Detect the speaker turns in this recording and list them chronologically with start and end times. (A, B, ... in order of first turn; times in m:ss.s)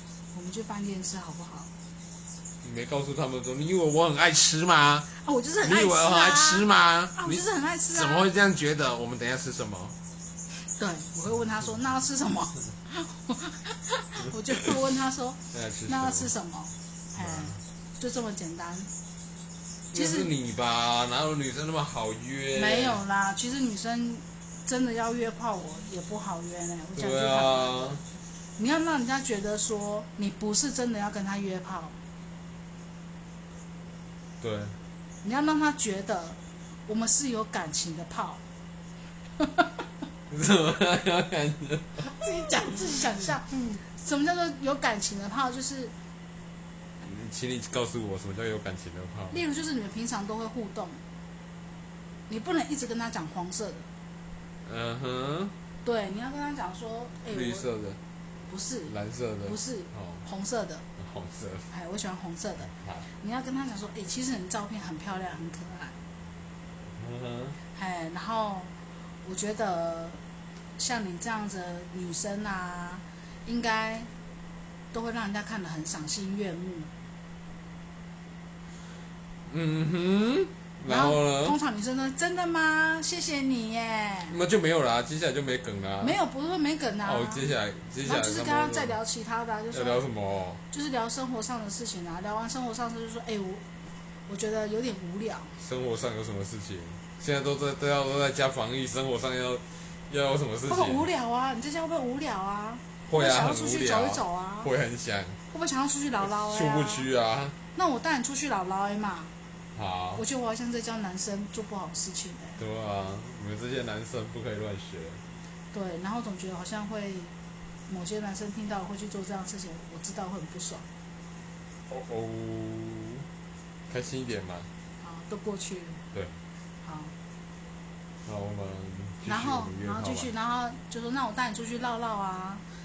0:00.3-0:01.7 A
0:02.6-0:05.1 B
0:05.2-0:08.3 A
0:05.6-0:09.9 B
0:10.6-0:18.9 A
0:15.5-0:16.3 B
0:17.1-0:17.6 B
0:19.9-0:20.3 A
0:19.9-0:23.0 B
0:22.5-0:28.0 A
0:26.9-0:28.0 B
0:28.6-0:32.0 A
0:34.4-0:34.8 B
0:35.2-0:38.4 A
0:39.4-0:39.7 A
0:40.3-0:42.0 B
0:42.0-0:45.9 A
0:47.0-0:49.4 B
0:49.3-0:51.0 A
0:52.3-0:53.9 A
0:54.6-0:55.5 B
0:55.8-0:57.6 A
0:57.3-0:58.0 B
0:58.5-1:00.8 A
0:58.9-1:00.2 B
1:01.0-1:01.7 B
1:01.7-1:06.0 A
1:02.7-1:03.1 B
1:06.9-1:07.6 B
1:07.7-1:08.7 A
1:09.2-1:10.2 A
1:10.8-1:14.1 A
1:14.9-1:16.9 A
1:19.5-1:21.6 B
1:20.8-1:24.3 A
1:24.3-1:26.2 B
1:26.0-1:27.5 A
1:27.0-1:29.0 B
1:28.0-1:30.0 A
1:29.7-1:30.6 B
1:30.7-1:33.6 A
1:34.3-1:35.6 A
1:35.6-1:41.1 B
1:40.7-1:44.7 A
1:43.0-1:45.4 B
1:45.5-1:47.1 A
1:46.2-1:47.6 B
1:47.7-1:49.3 A
1:49.7-1:50.2 B
1:50.2-1:52.6 A
1:52.6-1:55.2 B
1:55.7-1:57.3 A
1:57.9-2:00.8 A
2:01.9-2:03.2 B
2:03.9-2:04.7 B
2:05.0-2:06.0 A
2:06.8-2:07.1 A
2:08.2-2:10.3 B
2:09.2-2:12.6 A